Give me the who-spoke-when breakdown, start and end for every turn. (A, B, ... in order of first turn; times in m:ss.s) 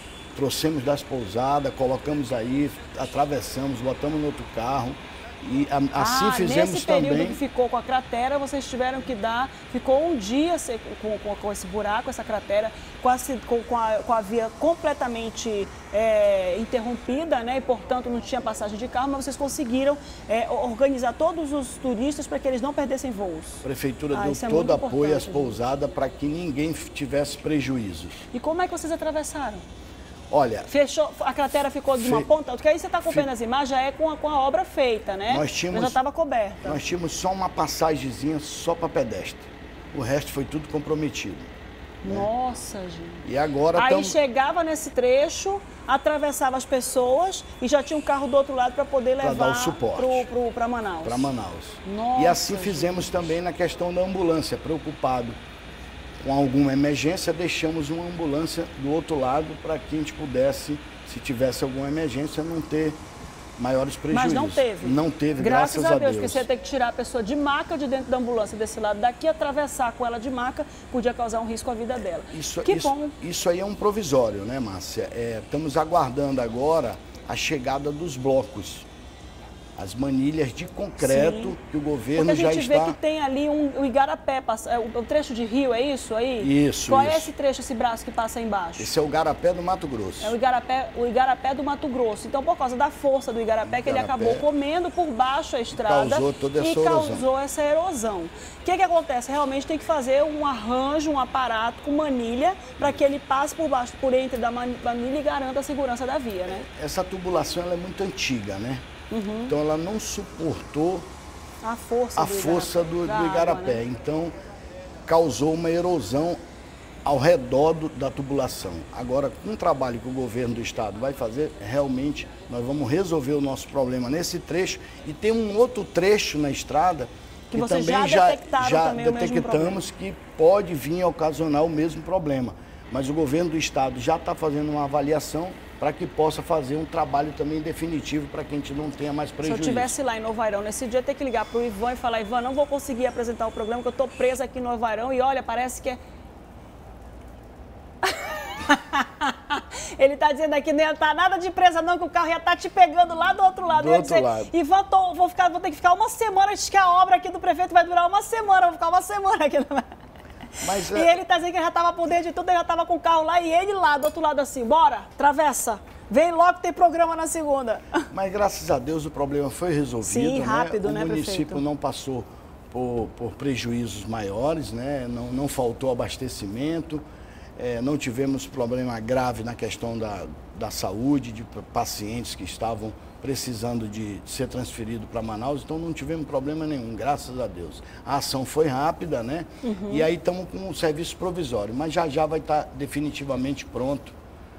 0:00.3-0:07.4 A
0:06.0-0:25.5 B
0:23.6-0:28.2 A
0:28.3-0:29.6 B
0:30.3-0:30.7 A
0:30.7-0:36.8 B
0:31.9-0:32.3 A
0:35.3-0:36.0 A
0:36.6-0:41.5 A
0:42.0-0:43.2 B
0:43.2-0:44.2 A
0:43.8-0:51.3 B
0:49.2-0:50.3 A
0:51.0-0:55.4 A
0:51.8-0:53.2 B
0:56.2-1:03.0 A
1:03.6-1:06.4 A
1:04.1-1:13.1 B
1:12.3-1:18.9 A
1:19.8-1:23.0 A
1:21.0-1:21.6 B
1:22.2-1:28.9 B
1:26.4-1:27.3 A
1:28.8-1:30.3 A
1:30.2-1:46.6 B
1:33.6-1:34.4 A
1:35.7-1:37.2 A
1:46.5-1:48.8 A
1:49.1-1:49.5 B
1:49.5-1:51.1 A
1:51.6-1:53.8 B
1:52.2-1:54.3 A
1:55.0-1:56.4 A
1:57.0-2:19.9 A
2:07.5-2:09.8 B
2:19.4-2:26.0 B
2:28.0-2:39.8 B
2:33.7-2:34.5 A
2:40.6-2:41.1 A
2:40.9-2:48.1 B
2:48.1-2:57.0 A
2:50.0-2:51.6 B
2:57.6-3:14.1 A
3:09.6-3:10.1 B